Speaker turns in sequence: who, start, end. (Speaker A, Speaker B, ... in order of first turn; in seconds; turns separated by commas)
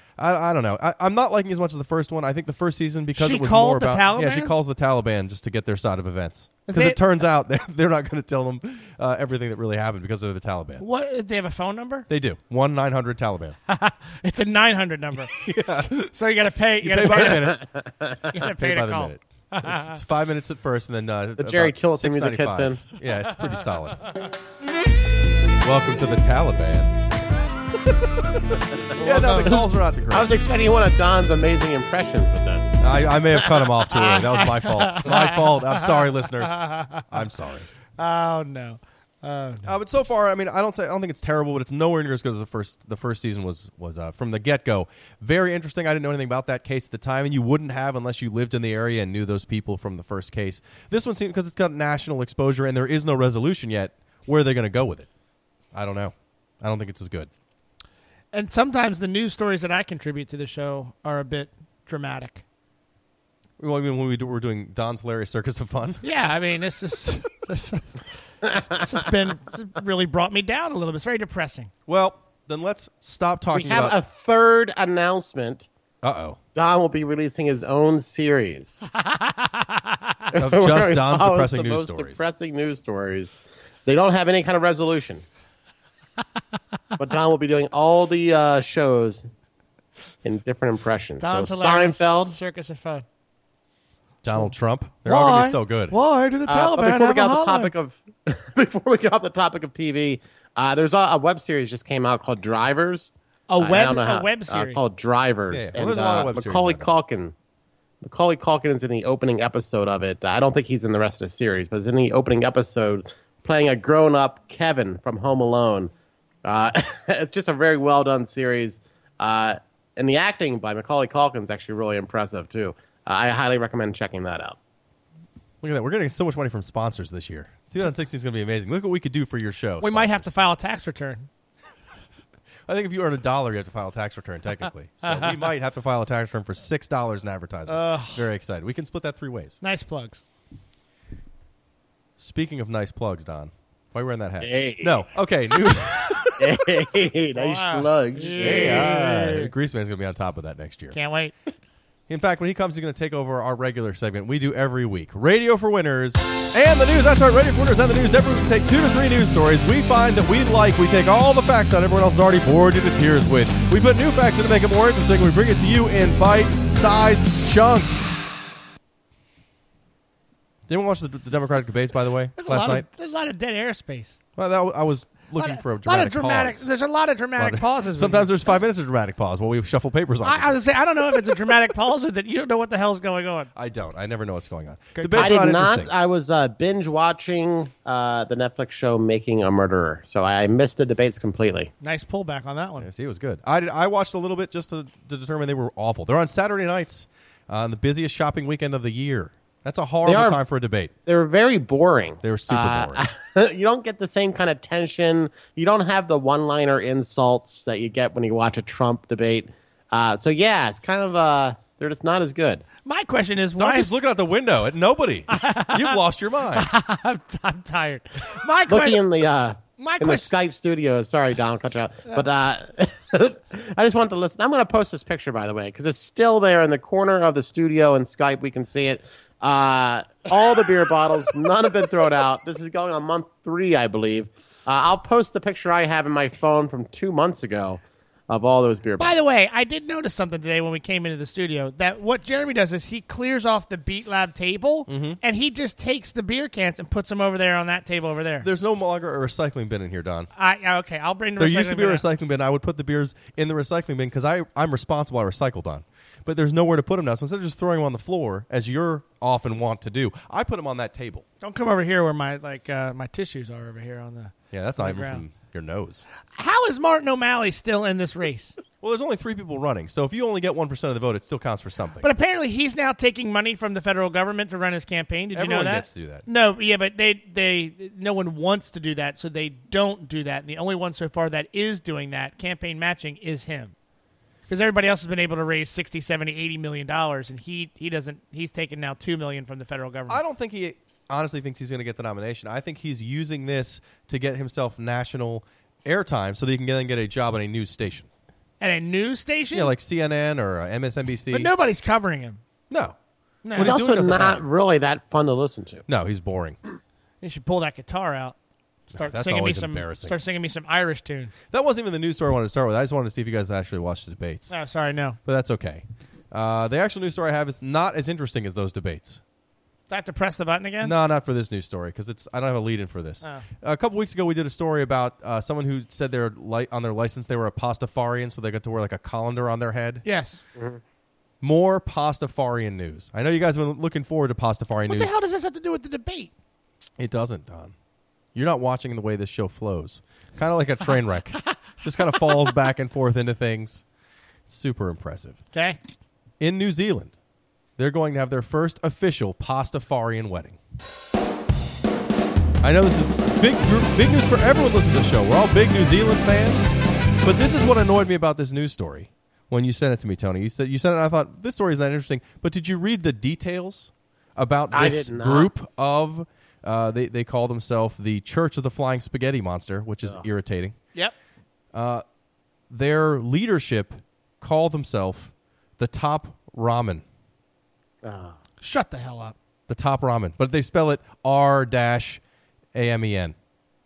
Speaker A: 0.2-10.8, Speaker B: 3.1-4.5, Speaker B: 6.7-7.0, Speaker B: 10.8-12.1, Speaker A: 12.1-13.6, Speaker B: 13.7-17.6, Speaker A: 15.3-17.6, Speaker C: 17.2-18.3, Speaker B: 18.3-20.0, Speaker A: 18.3-24.0, Speaker C: 21.4-22.9, Speaker A: 25.6-26.9, Speaker A: 27.8-30.3, Speaker B: 29.0-29.5, Speaker C: 30.1-32.8, Speaker A: 32.8-37.7, Speaker B: 34.0-37.0, Speaker B: 38.0-39.7, Speaker A: 39.6-55.1, Speaker A: 55.7-57.3, Speaker B: 58.3-62.4, Speaker A: 63.6-66.0, Speaker B: 66.0-71.7, Speaker A: 71.9-74.0, Speaker C: 73.5-75.7, Speaker A: 76.0-76.4, Speaker C: 76.5-78.8, Speaker B: 79.0-80.0, Speaker C: 80.3-85.2, Speaker A: 80.3-82.2, Speaker C: 87.0-89.2, Speaker C: 90.2-92.3, Speaker B: 91.2-93.0, Speaker A: 94.2-95.9, Speaker B: 95.0-97.7, Speaker C: 96.5-103.1, Speaker B: 103.5-104.8, Speaker C: 103.6-107.3, Speaker A: 105.5-106.9, Speaker C: 108.0-115.9, Speaker C: 116.4-124.6, Speaker A: 125.6-130.3, Speaker B: 129.8-131.3, Speaker A: 132.7-139.6, Speaker B: 135.0-135.3, Speaker B: 137.7-138.2, Speaker B: 139.6-140.2, Speaker A: 142.2-146.7, Speaker C: 144.4-145.0, Speaker C: 146.4-149.2, Speaker B: 147.3-149.4, Speaker A: 148.4-150.9, Speaker B: 150.9-151.3, Speaker A: 152.1-168.2, Speaker A: 170.7-172.8, Speaker B: 172.3-174.2, Speaker A: 174.4-176.7, Speaker B: 175.4-178.3, Speaker A: 177.4-180.6, Speaker B: 180.2-183.5, Speaker A: 183.5-185.9, Speaker B: 184.9-185.4, Speaker C: 185.2-191.7, Speaker B: 191.8-192.9, Speaker A: 192.8-200.9, Speaker C: 200.0-200.4, Speaker C: 201.1-212.6, Speaker A: 202.2-203.0, Speaker B: 212.8-213.9, Speaker A: 213.6-216.7, Speaker B: 215.3-216.0, Speaker B: 216.5-219.0, Speaker C: 218.7-239.2, Speaker B: 219.8-220.3, Speaker B: 239.0-248.5, Speaker A: 244.9-245.2, Speaker A: 248.4-250.3, Speaker B: 250.3-252.0, Speaker A: 251.4-261.2, Speaker B: 261.4-265.2, Speaker A: 264.5-266.0, Speaker B: 266.4-268.6, Speaker A: 268.8-272.1, Speaker B: 272.0-283.7, Speaker A: 275.3-276.2, Speaker B: 284.5-290.2, Speaker A: 290.1-298.1, Speaker B: 298.6-299.7, Speaker A: 299.5-301.5, Speaker B: 301.3-302.4, Speaker A: 302.7-302.9, Speaker B: 303.4-303.7, Speaker A: 303.5-304.4, Speaker C: 303.6-305.8, Speaker A: 305.9-306.6, Speaker B: 307.2-308.4, Speaker B: 308.9-311.4, Speaker A: 308.9-310.2, Speaker A: 311.5-314.5, Speaker B: 314.5-315.2, Speaker A: 315.2-319.2, Speaker B: 319.9-320.9, Speaker A: 320.8-330.0, Speaker B: 330.0-330.4, Speaker A: 331.4-335.1, Speaker B: 334.9-336.3, Speaker A: 337.0-337.7, Speaker A: 338.3-343.8, Speaker B: 342.1-342.5, Speaker A: 344.5-345.4, Speaker B: 345.5-345.8, Speaker A: 346.4-347.1, Speaker A: 347.8-350.6, Speaker A: 352.6-370.7, Speaker C: 364.7-365.5, Speaker A: 371.7-372.0, Speaker A: 372.7-377.0, Speaker C: 378.0-378.4, Speaker B: 378.6-379.3, Speaker A: 379.7-382.2, Speaker A: 382.7-383.3